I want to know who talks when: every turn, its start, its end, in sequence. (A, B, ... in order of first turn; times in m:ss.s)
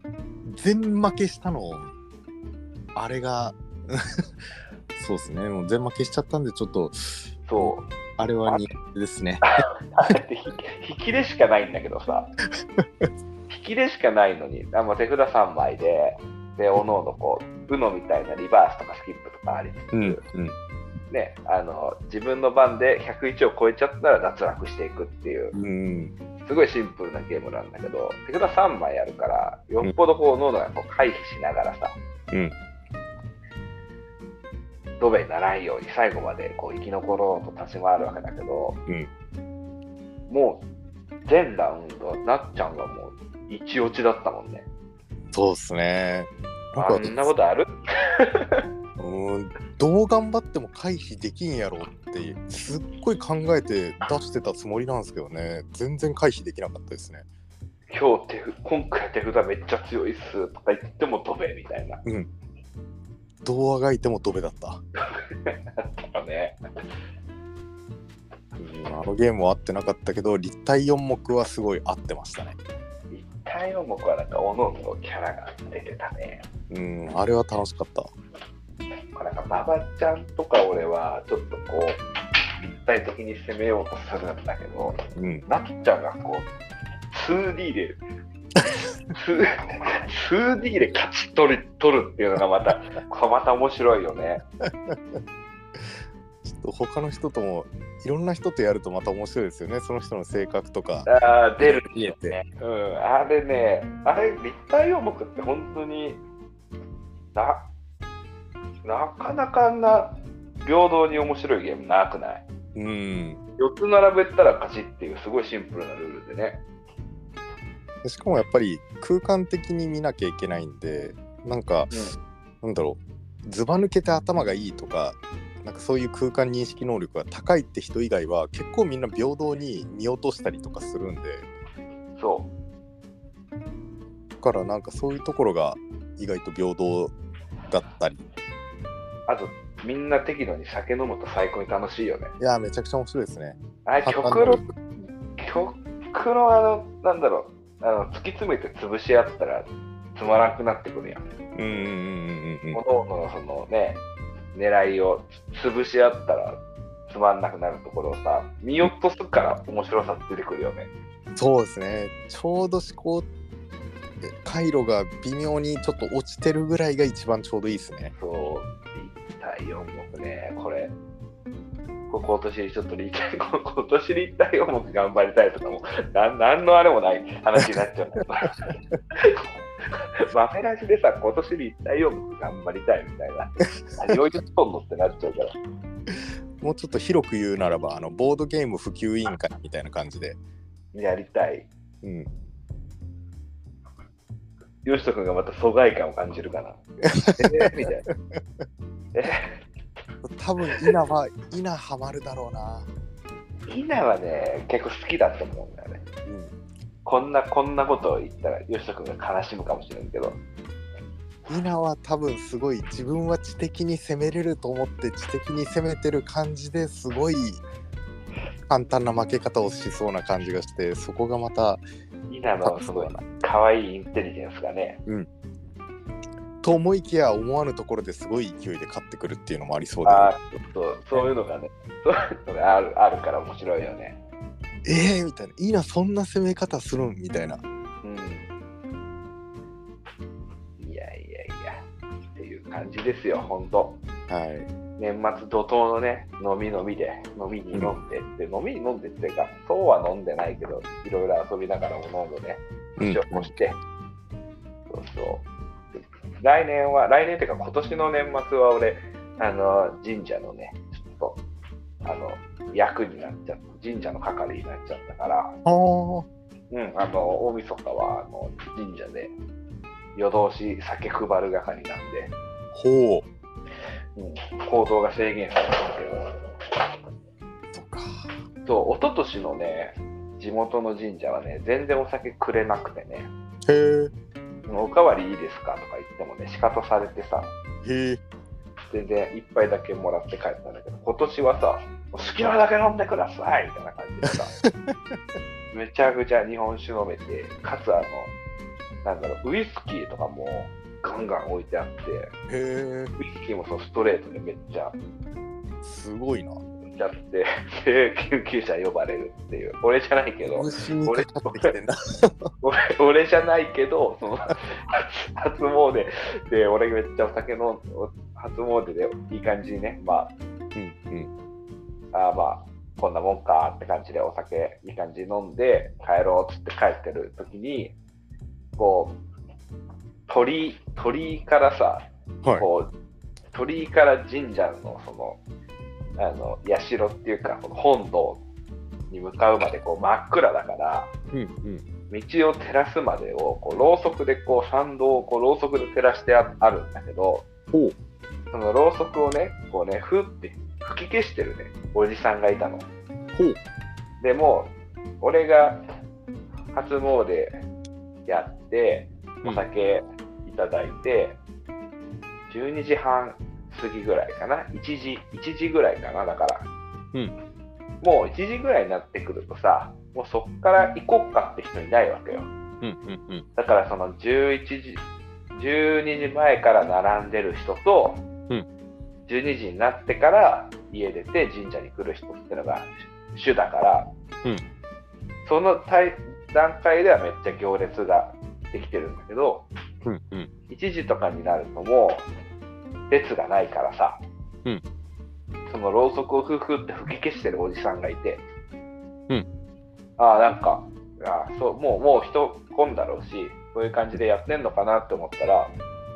0:00.4-0:01.9 A
0:02.9-0:04.0 A
0:04.9-0:09.4 A
0:07.5-0:07.9 B
0:09.9-0:12.3 B
0:12.8-0:13.1 A
0:13.5-0:20.2 B
0:19.9-0:20.5 A
0:21.1-0:25.5 B
0:25.5-0:26.1 A
0:26.4-0:32.0 B
0:35.0-0:38.8 B
0:40.3-0:40.6 B
0:41.2-0:44.6 B
0:45.3-0:47.3 A
0:46.8-0:48.6 B
0:49.0-0:57.2 A
0:57.9-1:02.0 B
1:02.0-1:02.3 A
1:03.4-1:04.8 A
1:05.0-1:06.6 B
1:08.6-1:12.6 A
1:13.1-1:16.4 B
1:16.7-1:18.1 A
1:19.1-1:22.0 B
1:22.6-1:26.5 B
1:25.1-1:25.4 A
1:27.1-1:28.0 B
1:29.1-1:34.4 B
1:34.6-1:35.2 A
1:36.4-1:41.1 A
1:41.0-1:46.2 B
1:41.6-1:42.4 A
1:47.4-1:47.7 B
1:48.8-1:52.4 B
1:52.7-1:53.4 A
1:53.6-1:56.6 B
1:58.0-2:01.9 A
2:01.9-2:02.2 B
2:02.6-2:11.5 A
2:12.2-2:12.5 B
2:14.4-2:17.1 A
2:17.7-2:18.2 A
2:19.3-2:22.3 B
2:22.4-2:24.7 A
2:23.9-2:24.6 B
2:25.4-2:31.2 B
2:31.6-2:32.8 A
2:32.7-2:34.0 B
2:34.5-2:40.9 B
2:41.4-2:43.3 A
2:44.2-2:48.1 A
2:48.2-2:50.9 B
2:52.1-2:59.4 B
3:00.0-3:05.5 B
3:06.1-3:10.4 A
3:10.9-3:11.7 B
3:12.0-3:12.3 A
3:14.8-3:16.8 B
3:17.2-3:17.8 A
3:17.3-3:18.0 B
3:19.1-3:19.5 B
3:20.2-3:22.9 A
3:23.7-3:26.0 B
3:26.2-3:26.5 A
3:27.0-3:30.4 B
3:31.5-3:37.6 A
3:38.7-3:41.8 A
3:42.3-3:45.0 B
3:42.6-3:43.2 A
3:46.6-3:50.3 A
3:50.0-3:54.2 B
3:54.8-3:57.6 A
3:58.0-3:58.5 B
4:00.8-4:01.8 B
4:02.4-4:04.0 B
4:04.3-4:04.7 A
4:05.0-4:13.8 B
4:13.0-4:13.6 A
4:14.9-4:21.4 B
4:22.0-4:25.6 B
4:25.6-4:26.3 A
4:26.7-4:29.4 B
4:30.2-4:32.3 B
4:32.7-4:33.2 A
4:34.2-4:36.3 B
4:37.7-4:38.2 A
4:38.6-4:43.3 B
4:43.6-4:44.1 A
4:44.7-4:47.5 B
4:47.8-4:48.2 A
4:48.9-4:54.5 B
4:55.7-4:58.3 B
4:59.0-5:02.3 B
5:02.5-5:03.1 A
5:03.2-5:05.0 B
5:05.8-5:06.6 A
5:07.0-5:11.7 B
5:10.4-5:12.5 A
5:12.6-5:20.3 B
5:20.7-5:21.3 A
5:22.1-5:27.9 B
5:28.8-5:29.2 B
5:30.3-5:32.9 B
5:33.5-5:35.4 B
5:36.2-5:38.4 B
5:39.1-5:41.1 B
5:41.3-5:41.8 A
5:42.1-5:47.5 B
5:48.5-5:52.9 B
5:53.3-5:53.6 A
5:54.2-5:55.8 B
5:56.7-5:57.6 B
5:58.2-6:01.4 B
6:02.5-6:06.7 B
6:08.0-6:12.5 B
6:12.8-6:13.4 A
6:13.6-6:15.0 B
6:15.5-6:18.2 B
6:19.3-6:24.1 B
6:25.4-6:29.7 B
6:30.0-6:30.5 A
6:30.7-6:32.2 B
6:33.1-6:34.2 B
6:35.7-6:38.4 B
6:40.2-6:45.8 B